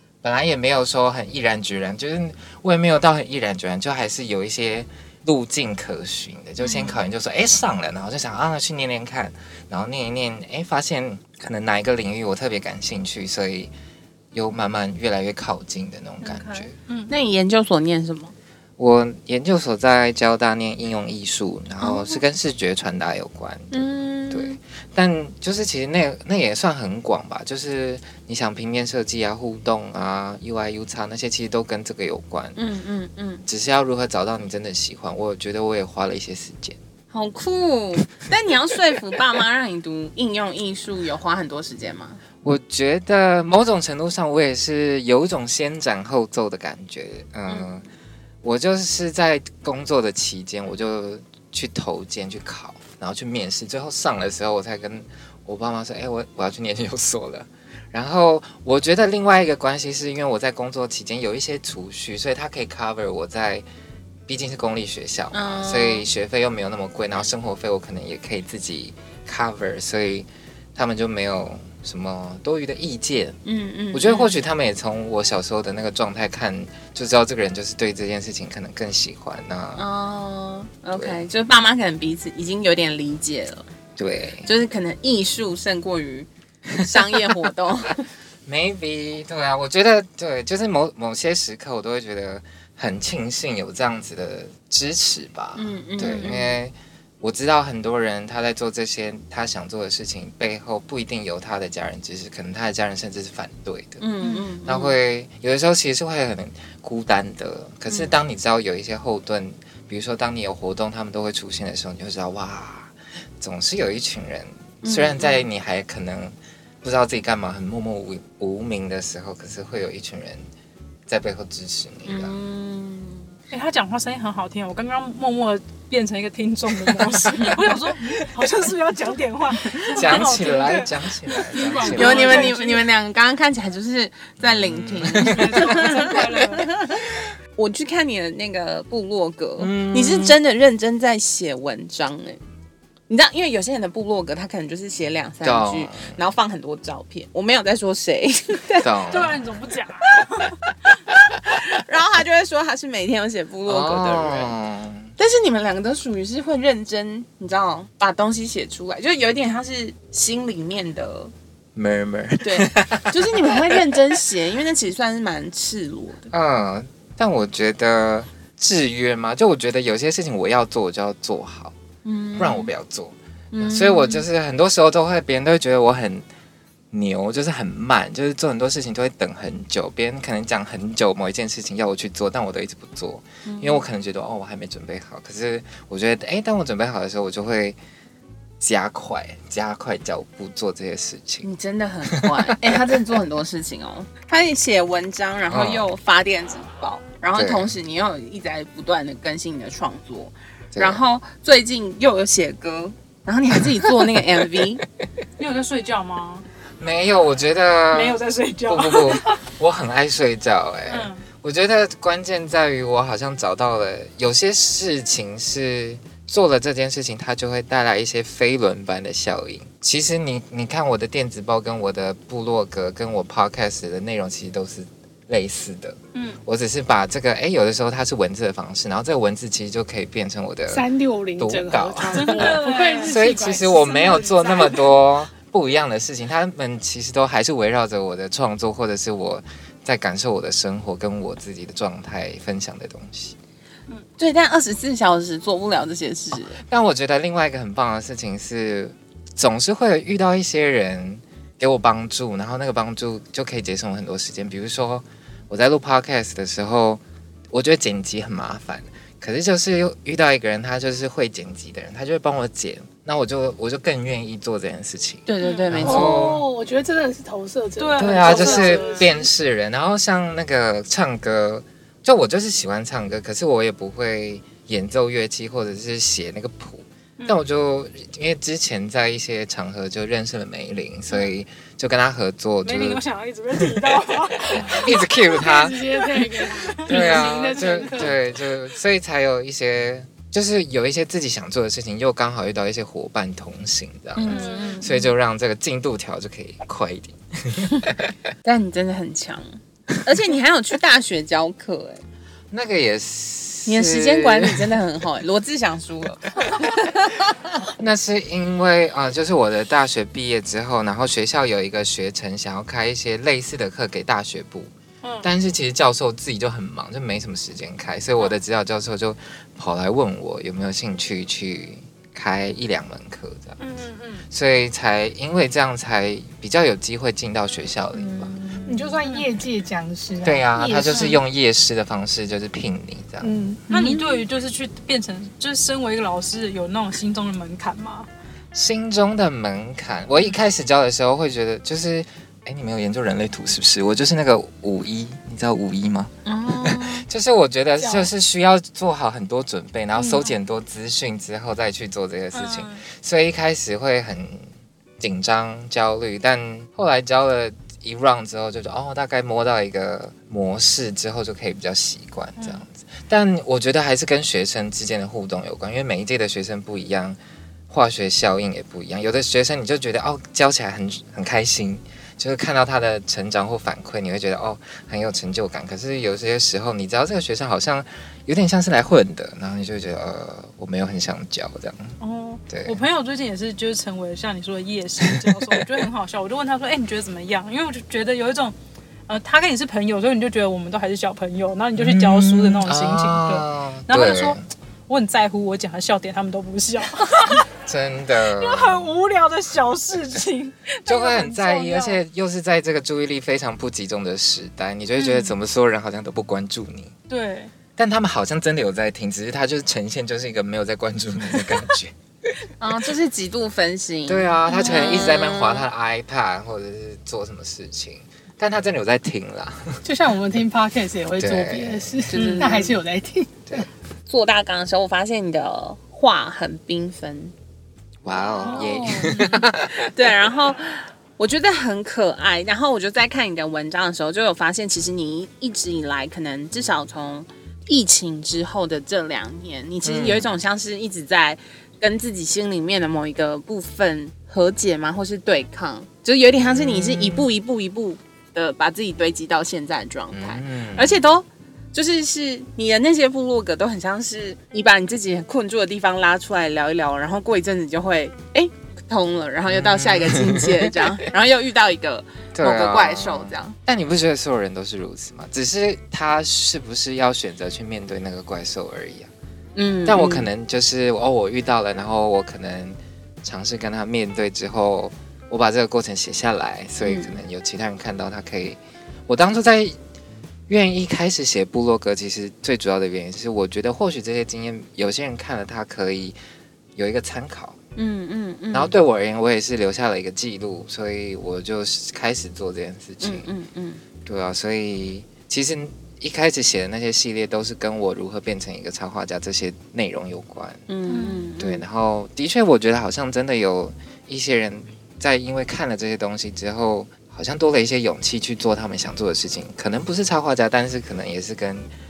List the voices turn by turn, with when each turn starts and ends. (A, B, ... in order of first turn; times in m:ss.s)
0:00.2-0:13.7 A
0:06.6-0:07.0 B
0:14.3-0:16.7 A
0:16.2-0:17.1 C
0:17.1-0:18.3 B
0:18.8-0:32.6 A
0:21.8-0:22.2 B
0:23.7-0:24.6 B
0:32.6-0:33.4 B
0:33.5-0:36.8 A
0:37.1-0:42.2 B
0:42.4-0:47.8 A
0:48.4-1:03.6 A
1:04.3-1:13.4 A
1:05.3-1:06.0 B
1:13.4-1:14.3 B
1:13.9-1:19.8 A
1:19.8-1:23.6 B
1:20.9-1:21.2 A
1:24.0-1:24.5 A
1:24.4-1:28.0 B
1:28.4-1:44.0 A
1:35.5-1:36.6 B
1:44.0-1:45.0 B
1:44.2-1:44.5 C
1:44.6-2:00.4 A
1:47.9-1:48.1 B
1:54.8-1:55.4 B
2:01.1-2:02.3 A
2:02.0-2:03.3 B
2:03.5-2:12.3 C
2:09.9-2:12.5 A
2:11.3-2:12.9 D
2:11.9-2:17.0 B
2:14.6-2:15.7 A
2:15.2-2:16.7 C
2:15.7-2:16.2 D
2:17.6-2:22.4 B
2:19.6-2:20.4 A
2:23.1-2:28.9 B
2:25.4-2:26.1 A
2:28.8-2:29.4 A
2:29.1-2:30.6 C
2:31.4-2:34.5 B
2:33.6-2:35.1 A
2:35.2-2:41.3 B
2:41.7-2:44.0 A
2:42.4-2:46.3 B
2:46.3-2:51.8 A
2:52.0-2:52.7 B
2:52.4-2:56.2 A
2:53.5-2:54.2 B
2:56.9-3:07.8 A
3:03.4-3:03.8 B
3:08.6-3:11.5 A
3:11.4-3:24.8 B
3:12.1-3:13.0 A
3:15.5-3:15.9 A
3:17.4-3:17.7 A
3:20.7-3:21.0 A
3:23.7-3:24.4 A
3:25.4-3:26.4 C
3:26.8-3:50.9 A
3:27.9-3:29.4 C
3:30.9-3:31.2 C
3:46.1-3:46.4 C
3:50.7-3:54.2 D
3:51.4-4:03.3 A
3:52.1-3:54.9 C
4:04.2-4:06.6 B
4:06.6-4:26.4 A
4:25.2-4:26.2 B
4:25.4-4:26.0 C
4:25.8-4:29.3 D
4:27.8-4:29.1 C
4:28.0-4:43.0 A
4:42.6-4:45.1 C
4:43.6-4:43.9 A
4:44.5-4:45.8 A
4:45.2-4:48.2 D
4:46.0-4:48.1 C
4:46.8-4:58.1 A
4:54.1-4:55.1 B
4:54.3-4:54.8 C
4:58.4-5:02.0 B
5:02.5-5:04.7 A
5:03.6-5:07.4 B
5:07.7-5:14.7 A
5:15.0-5:15.3 C
5:15.2-5:23.6 A
5:23.6-5:24.3 C
5:24.3-5:28.3 A
5:27.9-5:28.9 B
5:28.6-5:31.2 D
5:30.2-5:33.5 A
5:30.8-5:31.2 C
5:33.2-5:33.6 D
5:33.7-5:34.2 B
5:33.7-5:38.1 C
5:38.5-6:07.2 A
5:46.2-5:47.0 B
5:47.8-5:48.1 D
5:50.0-5:50.2 B
5:52.3-5:52.8 C
6:02.4-6:02.6 C
6:07.7-6:21.9 A
6:22.0-6:28.5 C
6:22.5-6:22.8 A
6:25.0-6:25.6 A
6:29.1-6:37.5 C
6:31.8-6:34.4 A
6:37.4-6:38.9 A
6:38.4-6:42.0 C
6:40.8-6:46.9 A
6:47.1-6:47.5 C
6:47.8-6:52.5 A
6:52.6-6:55.6 B
6:54.1-6:59.8 A
6:54.5-6:55.1 C
6:59.8-7:03.7 D
7:01.2-7:02.0 A
7:02.1-7:02.8 B
7:02.1-7:02.6 C
7:04.1-7:07.3 B
7:08.0-7:09.9 A
7:08.4-7:09.5 D
7:08.4-7:09.2 C
7:09.6-7:43.6 B
7:19.8-7:20.3 A
7:26.4-7:27.3 A
7:30.1-7:31.0 A
7:39.5-7:40.9 A
7:42.3-7:49.1 A
7:49.6-7:50.3 B
7:49.9-7:59.8 A
7:56.8-7:57.1 B
8:00.5-8:06.2 A
8:06.8-8:07.6 A
8:07.8-8:08.7 B
8:08.5-8:13.3 A
8:13.0-8:13.8 B
8:14.0-8:20.6 A
8:20.7-8:21.6 B
8:20.9-8:21.3 C
8:21.4-8:31.7 A